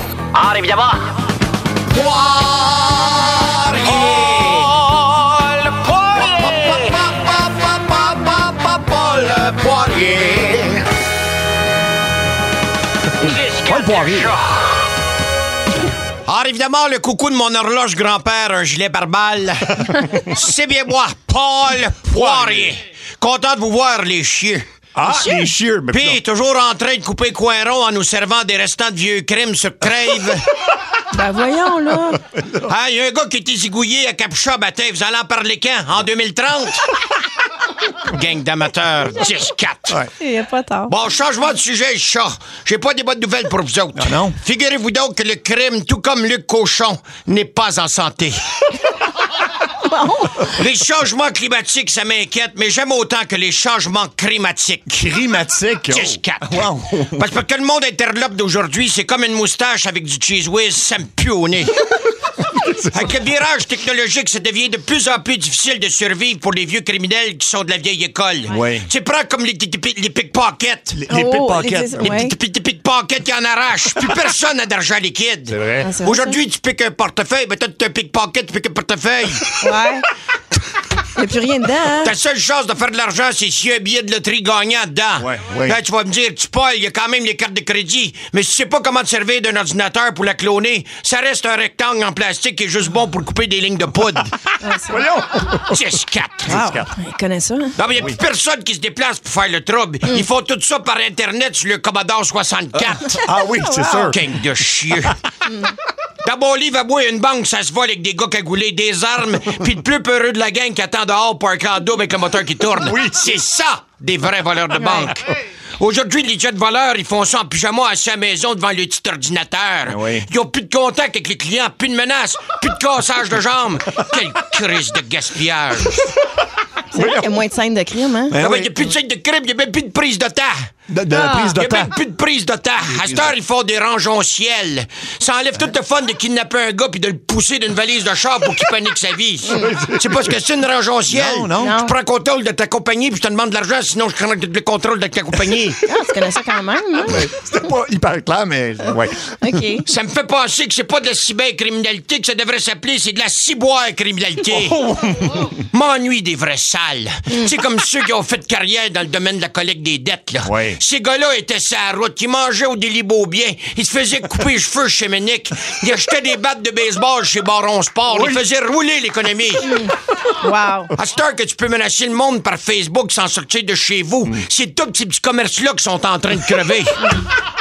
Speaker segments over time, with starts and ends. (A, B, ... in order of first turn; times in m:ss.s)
0:00.3-0:01.1 A
0:01.9-0:10.8 A
0:13.2-0:14.6 A
0:13.6-0:14.3 B
0:16.2-0:24.6 A
0:22.1-0:22.8 B
0:24.9-0:26.2 B
0:25.9-0:30.5 A
0:31.1-0:32.2 C
0:32.5-0:36.9 A
0:37.9-0:40.1 A
0:40.2-0:40.9 C
0:40.9-0:48.4 A
0:43.9-0:44.4 B
0:49.7-0:50.5 C
0:50.4-0:55.1 A
0:54.9-0:57.2 B
0:55.9-1:01.8 A
1:02.5-1:03.0 B
1:02.7-1:11.1 A
1:08.5-1:08.9 B
1:11.0-1:12.2 B
1:11.1-1:12.3 C
1:12.0-1:19.6 A
1:15.5-1:15.9 B
1:15.8-1:16.4 C
1:19.6-1:20.1 C
1:21.1-1:22.1 C
1:22.0-1:34.4 A
1:25.2-1:25.8 B
1:34.6-1:35.0 C
1:34.9-1:35.8 B
1:35.6-1:36.6 A
1:36.4-1:36.9 B
1:36.5-1:37.7 C
1:37.7-1:43.3 A
1:42.9-1:44.3 B
1:43.5-1:44.1 C
1:44.0-1:45.2 A
1:45.4-1:45.7 C
1:46.2-1:55.2 A
1:52.8-1:53.1 B
1:54.8-1:55.1 C
1:55.8-2:06.0 A
1:59.8-2:00.3 B
2:03.9-2:04.2 B
2:06.9-2:08.4 C
2:06.9-2:07.3 B
2:08.3-2:08.8 B
2:08.4-2:10.7 A
2:10.9-2:11.9 B
2:11.1-2:11.6 C
2:11.5-2:25.9 A
2:12.8-2:13.3 B
2:19.4-2:20.4 B
2:19.4-2:19.7 C
2:21.1-2:21.8 B
2:21.5-2:21.9 C
2:25.8-2:27.3 C
2:27.0-2:29.5 B
2:29.4-2:29.8 C
2:29.8-2:34.9 A
2:34.5-2:35.5 B
2:35.5-2:49.8 A
2:40.4-2:40.8 B
2:48.1-2:48.4 B
2:49.7-2:50.9 C
2:50.9-2:57.1 A